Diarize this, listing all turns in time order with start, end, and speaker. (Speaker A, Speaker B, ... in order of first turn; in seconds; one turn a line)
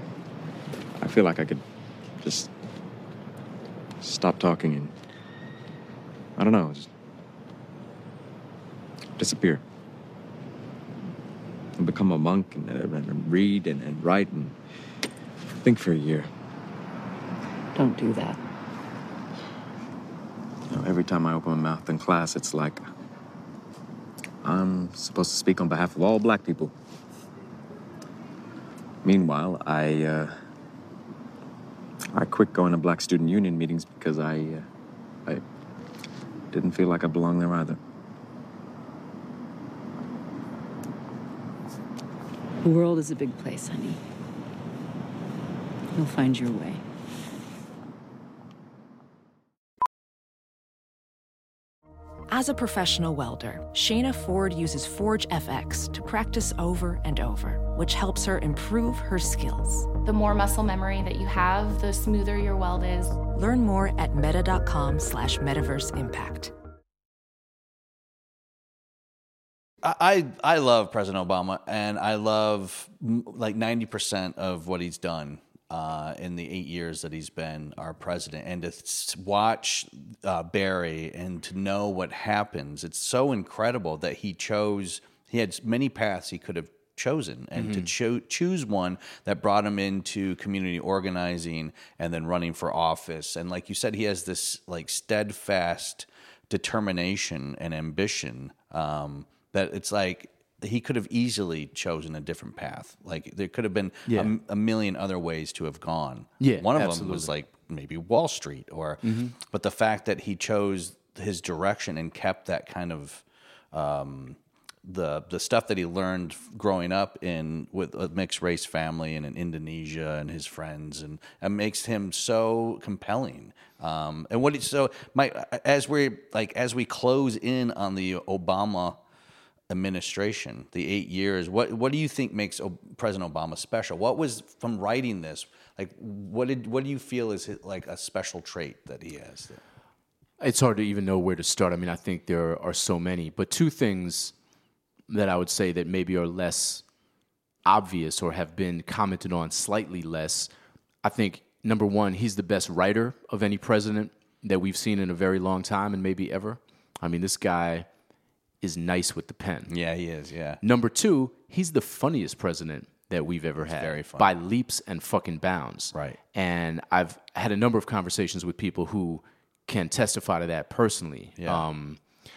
Speaker A: 1.0-1.6
Speaker A: 2.2-2.5
Speaker A: 4.0-4.9
Speaker A: 6.4-6.9
Speaker A: 9.2-9.6
Speaker A: 11.8-14.6
Speaker A: 15.5-16.3
Speaker B: 17.7-18.4
Speaker A: 20.7-22.8
Speaker A: 24.4-26.7
Speaker A: 29.0-30.3
Speaker A: 32.1-34.6
Speaker A: 36.5-37.8
Speaker B: 42.6-44.0
Speaker B: 45.9-46.8
Speaker C: 52.3-59.9
Speaker D: 60.0-63.2
Speaker C: 63.3-66.5
Speaker E: 69.8-129.0
Speaker F: 87.6-87.9
Speaker F: 104.1-104.3
Speaker F: 106.4-107.3
Speaker F: 109.0-109.3
Speaker E: 129.7-139.6
Speaker F: 140.4-144.3
Speaker F: 145.1-146.8
Speaker F: 147.7-150.5
Speaker F: 151.0-157.9
Speaker F: 158.6-159.7
Speaker E: 159.7-160.6
Speaker F: 160.6-172.0
Speaker E: 163.7-164.3
Speaker E: 165.9-166.2
Speaker E: 171.4-171.7